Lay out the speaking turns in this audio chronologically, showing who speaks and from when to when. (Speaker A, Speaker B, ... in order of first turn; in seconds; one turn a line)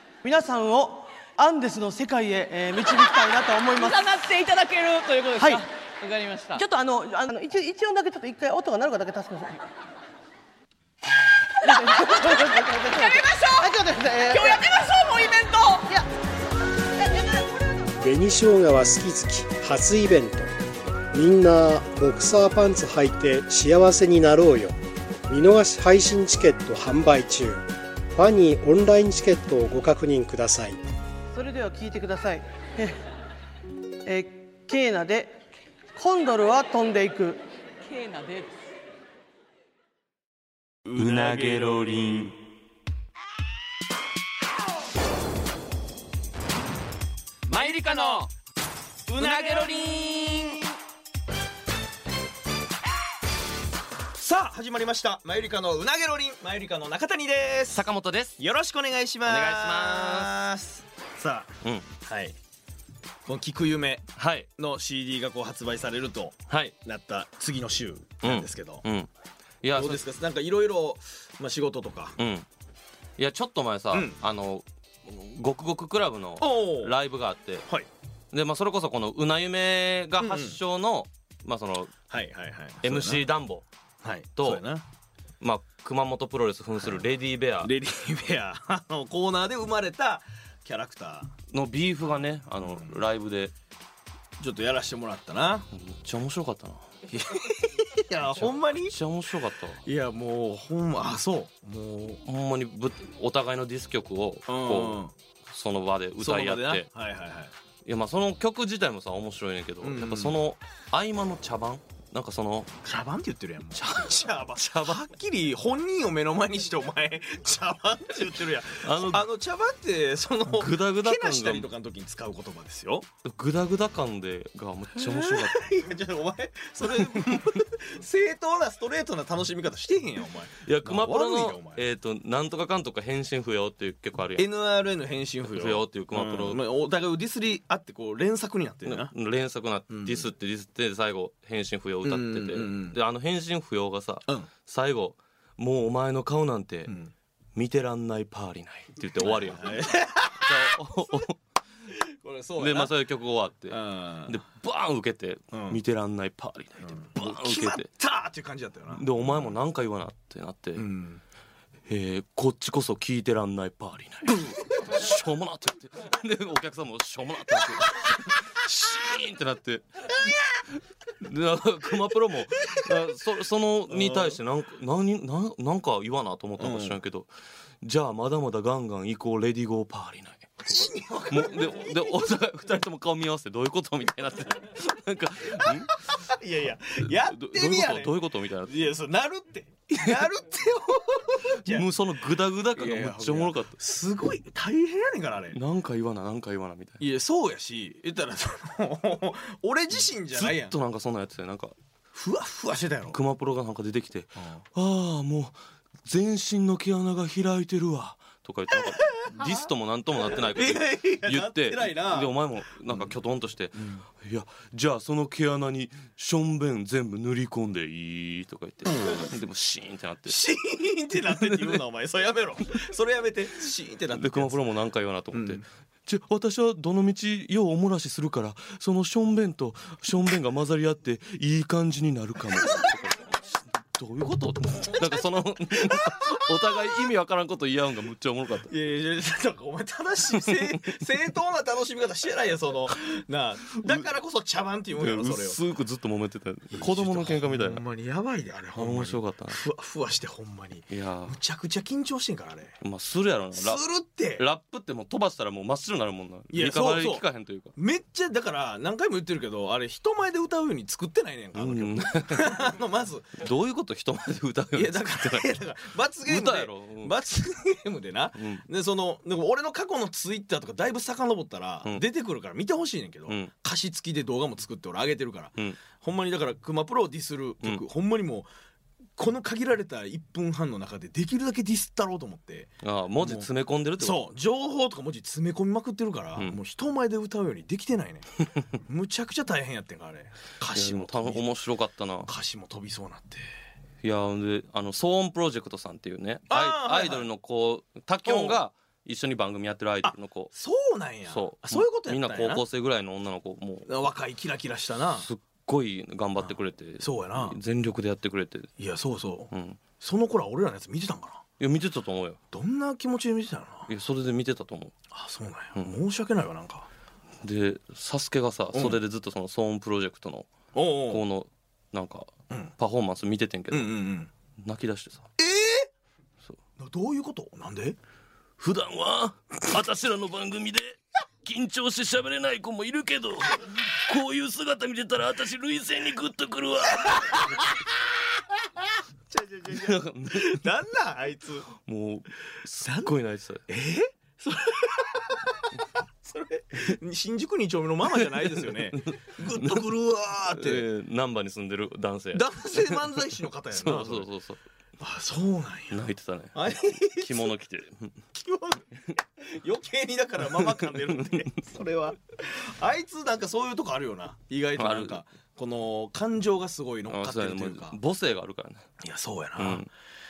Speaker A: 0.2-4.1
Speaker B: 3.7-6.6
Speaker A: 5.4-5.6
Speaker A: 6.5-9.6
Speaker A: 11.6-14.6
Speaker B: 11.7-15.9
Speaker C: 18.0-20.5
Speaker C: 21.1-24.8
Speaker C: 25.3-30.8
Speaker A: 31.3-33.0
Speaker A: 34.0-35.4
Speaker A: 35.9-37.4
Speaker B: 37.8-38.6
Speaker D: 40.9-41.9
Speaker E: 41.0-42.4
Speaker B: 47.5-48.2
Speaker D: 47.6-48.2
Speaker D: 49.1-50.6
Speaker B: 49.2-50.6
Speaker D: 54.1-57.8
Speaker E: 57.7-58.4
Speaker D: 58.4-62.4
Speaker E: 59.2-60.3
Speaker E: 61.6-61.9
Speaker D: 63.2-68.8
Speaker E: 64.2-64.5
Speaker E: 66.5-66.7
Speaker E: 68.2-69.1
Speaker E: 69.6-70.0
Speaker D: 69.7-72.2
Speaker E: 72.2-72.5
Speaker E: 73.2-77.6
Speaker D: 73.9-74.2
Speaker D: 76.4-76.9
Speaker E: 78.3-82.0
Speaker D: 80.2-80.6
Speaker D: 82.1-83.2
Speaker E: 82.8-83.6
Speaker D: 84.0-84.8
Speaker E: 84.3-84.6
Speaker E: 85.4-87.7
Speaker D: 87.6-91.3
Speaker E: 91.5-93.5
Speaker D: 92.6-93.0
Speaker D: 94.4-95.7
Speaker E: 95.7-96.8
Speaker D: 97.1-99.0
Speaker E: 98.2-99.8
Speaker D: 99.8-102.2
Speaker E: 102.2-106.9
Speaker D: 104.5-105.1
Speaker D: 106.2-107.5
Speaker E: 107.8-112.7
Speaker D: 109.8-110.4
Speaker D: 112.8-123.1
Speaker E: 113.7-115.0
Speaker E: 118.8-119.2
Speaker E: 120.5-121.7
Speaker E: 123.2-125.6
Speaker D: 125.0-131.8
Speaker E: 126.8-127.3
Speaker E: 130.6-134.5
Speaker D: 134.4-139.1
Speaker E: 135.4-136.6
Speaker E: 138.8-146.9
Speaker D: 139.9-140.3
Speaker D: 142.0-143.0
Speaker E: 147.5-149.8
Speaker D: 149.2-150.8
Speaker E: 150.4-151.4
Speaker D: 152.0-152.9
Speaker E: 152.6-157.9
Speaker D: 153.7-154.4
Speaker D: 155.5-155.8
Speaker D: 156.8-159.5
Speaker E: 158.9-160.8
Speaker D: 160.8-161.2
Speaker E: 161.9-170.1
Speaker E: 171.2-177.3
Speaker D: 173.9-174.4
Speaker D: 176.6-177.0
Speaker E: 177.8-186.1
Speaker D: 180.6-182.3
Speaker D: 185.6-188.1
Speaker E: 187.0-188.8
Speaker D: 188.6-191.8
Speaker E: 191.6-193.8
Speaker D: 192.7-195.6
Speaker E: 195.5-197.0
Speaker D: 197.0-200.7
Speaker E: 200.3-201.7
Speaker D: 202.1-203.2
Speaker E: 203.1-220.4
Speaker D: 204.4-204.6
Speaker D: 208.9-209.5
Speaker D: 210.4-212.3
Speaker D: 218.9-219.2
Speaker D: 220.3-224.6
Speaker E: 221.2-221.8
Speaker E: 224.1-238.7
Speaker D: 225.3-225.6
Speaker D: 235.7-236.5
Speaker D: 238.7-245.6
Speaker E: 240.3-240.9
Speaker E: 243.7-244.1
Speaker E: 244.9-247.8
Speaker D: 246.8-252.8
Speaker E: 248.7-249.6
Speaker E: 250.9-251.4
Speaker E: 252.8-253.8
Speaker D: 253.5-254.4
Speaker E: 254.3-257.7
Speaker D: 256.5-257.2
Speaker D: 257.8-263.4
Speaker E: 261.5-262.7
Speaker E: 263.4-265.5
Speaker D: 264.7-278.5
Speaker E: 266.2-267.1
Speaker E: 268.4-268.6
Speaker D: 279.2-282.7
Speaker E: 282.8-284.2
Speaker D: 283.2-283.5
Speaker D: 284.0-291.4
Speaker E: 290.7-292.3
Speaker D: 292.2-293.4
Speaker E: 294.0-300.5
Speaker D: 296.5-297.2
Speaker D: 298.2-298.6
Speaker D: 300.0-302.6
Speaker E: 301.3-303.9
Speaker D: 303.9-305.3
Speaker E: 305.2-308.7
Speaker D: 306.4-307.6
Speaker D: 308.8-311.4
Speaker E: 309.5-309.8
Speaker E: 311.6-312.4
Speaker D: 312.5-313.9
Speaker E: 313.9-314.9
Speaker D: 315.1-316.9
Speaker E: 317.4-320.5
Speaker D: 318.7-319.0
Speaker D: 320.7-321.2
Speaker E: 321.1-323.9
Speaker D: 323.7-324.3
Speaker E: 324.6-325.3
Speaker D: 325.4-325.9
Speaker D: 326.8-328.0
Speaker E: 328.6-337.6
Speaker D: 337.0-337.4
Speaker D: 339.3-341.7
Speaker E: 339.7-340.6
Speaker E: 341.8-343.6
Speaker D: 342.8-343.1
Speaker D: 343.7-350.9
Speaker E: 348.0-349.9
Speaker E: 350.5-354.6
Speaker D: 352.3-354.3
Speaker D: 355.0-356.0
Speaker E: 355.9-358.1
Speaker D: 356.5-357.5
Speaker D: 358.3-367.9
Speaker E: 360.4-361.5
Speaker E: 364.7-365.2
Speaker E: 367.1-368.9
Speaker D: 369.0-369.9
Speaker E: 369.6-369.9